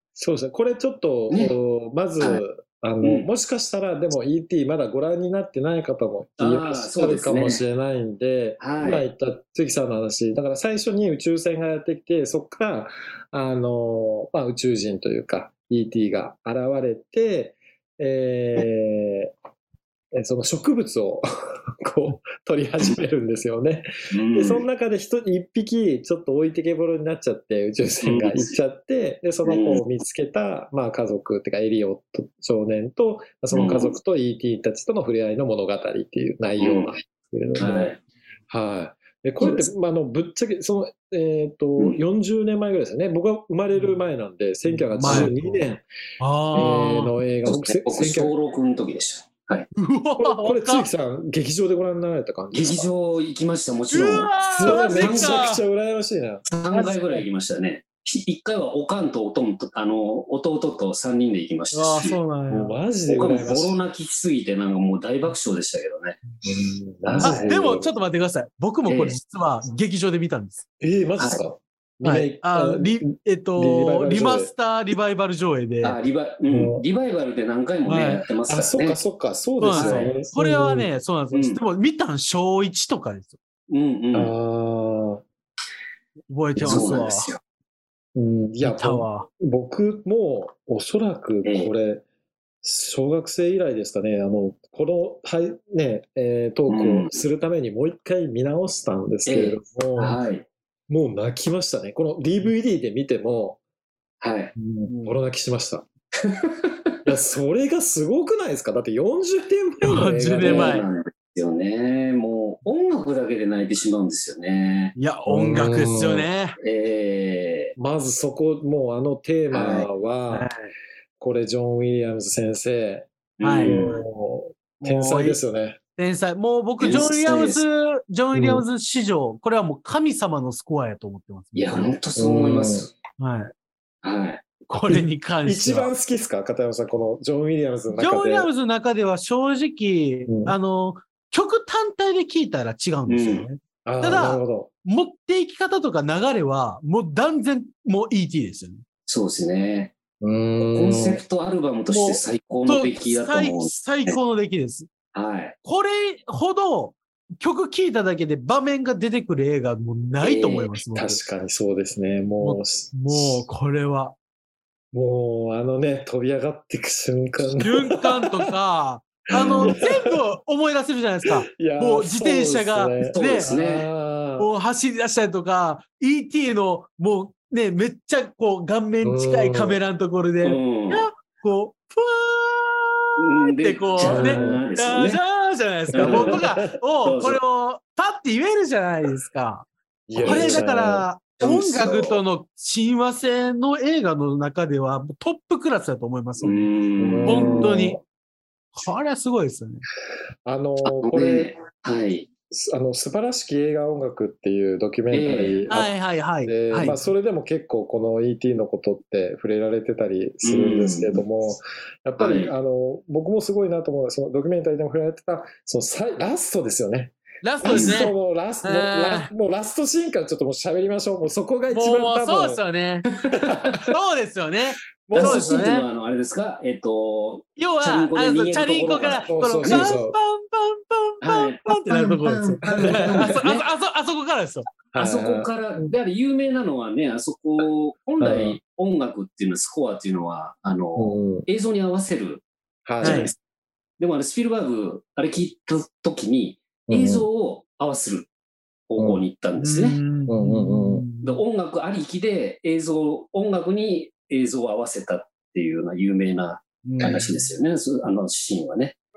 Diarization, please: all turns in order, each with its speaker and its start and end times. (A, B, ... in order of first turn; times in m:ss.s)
0:00.2-0:19.3 A
0:06.4-0:07.6 B
0:08.6-0:09.1 B
0:20.2-0:21.2 A
0:21.8-0:37.9 A
0:24.1-0:24.6 B
0:28.0-0:28.5 B
0:29.5-0:29.8 B
0:33.5-0:33.9 B
0:36.6-0:37.0 B
0:37.6-0:38.0 B
0:38.5-0:45.8 A
0:39.4-0:39.7 B
0:43.7-0:44.0 C
0:44.6-0:45.7 C
0:45.0-0:45.3 B
0:46.2-0:47.1 C
0:46.5-0:48.3 A
0:47.4-0:49.7 B
0:49.8-0:50.9 C
0:50.2-0:52.9 A
0:52.5-0:55.4 B
0:53.9-0:55.6 C
0:54.5-0:56.4 A
0:56.4-1:02.2 B
0:56.7-0:57.2 C
1:01.7-1:02.8 C
1:02.5-1:03.8 A
1:03.0-1:06.2 B
1:06.4-1:07.9 A
1:07.0-1:07.6 B
1:07.2-1:10.6 C
1:08.9-1:09.2 B
1:10.8-1:14.5 A
1:12.0-1:16.0 C
1:15.8-1:19.0 B
1:16.5-1:16.8 A
1:17.8-1:18.2 C
1:18.5-1:20.9 A
1:19.6-1:23.4 C
1:19.7-1:20.1 B
1:21.3-1:21.6 B
1:23.7-1:24.3 B
1:24.1-1:25.2 A
1:26.3-1:27.3 C
1:26.6-1:27.0 A
1:26.6-1:27.4 B
1:28.1-1:32.0 A
1:28.6-1:29.3 C
1:31.4-1:31.7 B
1:32.6-1:40.2 A
1:36.7-1:37.2 B
1:39.3-1:40.4 B
1:40.9-1:43.6 A
1:44.2-1:44.5 B
1:44.5-1:45.8 A
1:44.8-1:45.2 C
1:47.0-1:50.8 A
1:49.8-1:50.8 C
1:50.4-1:54.9 B
1:55.0-1:56.6 C
1:55.2-1:56.3 A
1:56.6-1:57.7 B
1:57.8-2:00.5 A
1:59.5-1:59.9 B
2:00.3-2:00.7 C
2:01.2-2:03.1 A
2:03.4-2:03.9 B
2:03.4-2:03.9 C
2:03.6-2:05.8 A
2:04.8-2:05.4 C
2:06.0-2:11.9 C
2:06.8-2:07.6 B
2:08.3-2:08.6 A
2:11.5-2:12.9 B
2:12.2-2:12.9 A
2:13.2-2:13.5 C
2:14.0-2:14.4 B
2:14.7-2:15.9 C
2:14.8-2:18.5 A
2:17.9-2:28.8 C
2:20.3-2:20.6 A
2:23.1-2:23.5 B
2:23.8-2:24.7 A
2:29.1-2:29.9 B
2:30.2-2:31.2 A
2:30.6-2:34.2 B
2:31.9-2:34.9 C
2:35.1-2:35.6 B
2:35.6-2:41.2 C
2:40.2-2:40.7 B
2:40.9-2:43.4 A
2:42.4-2:44.2 C
2:44.9-2:48.2 A
2:47.4-2:53.5 C
2:49.3-2:50.1 A
2:49.3-2:49.8 B
2:51.3-2:54.5 A
2:53.1-2:53.9 B
2:54.4-3:16.6 C
2:59.0-2:59.8 A
3:00.4-3:01.1 B
3:03.2-3:05.2 B
3:04.0-3:04.6 A
3:05.9-3:06.7 A
3:05.9-3:07.4 B
3:10.1-3:11.1 A
3:10.2-3:10.6 B
3:11.4-3:12.2 B
3:16.4-3:17.7 B
3:17.0-3:18.0 A
3:17.2-3:18.0 C
3:18.7-3:19.8 C
3:20.4-3:21.5 A
3:20.8-3:22.3 B
3:22.5-3:42.6 A
3:25.1-3:25.6 B
3:25.7-3:27.1 C
3:30.4-3:31.2 B
3:32.2-3:32.5 B
3:37.4-3:39.3 C
3:37.6-3:38.1 B
3:41.7-3:43.1 C
3:43.2-3:43.8 B
3:43.9-3:45.9 C
3:45.0-3:45.7 A
3:45.1-3:50.0 B
3:47.6-3:54.6 C
3:49.3-3:50.2 A
3:51.2-3:53.6 B
3:52.6-3:53.3 A
3:54.9-3:55.9 A
3:54.9-4:02.4 B
3:58.2-3:58.6 A
4:01.0-4:01.5 A
4:02.8-4:03.3 A
4:03.0-4:03.4 B
4:03.0-4:03.3 C
4:04.0-4:08.3 B
4:06.9-4:07.2 A
4:08.9-4:10.0 B
4:09.6-4:11.4 C
4:10.3-4:11.0 A
4:11.2-4:18.9 B
4:16.8-4:17.5 C
4:17.0-4:17.3 A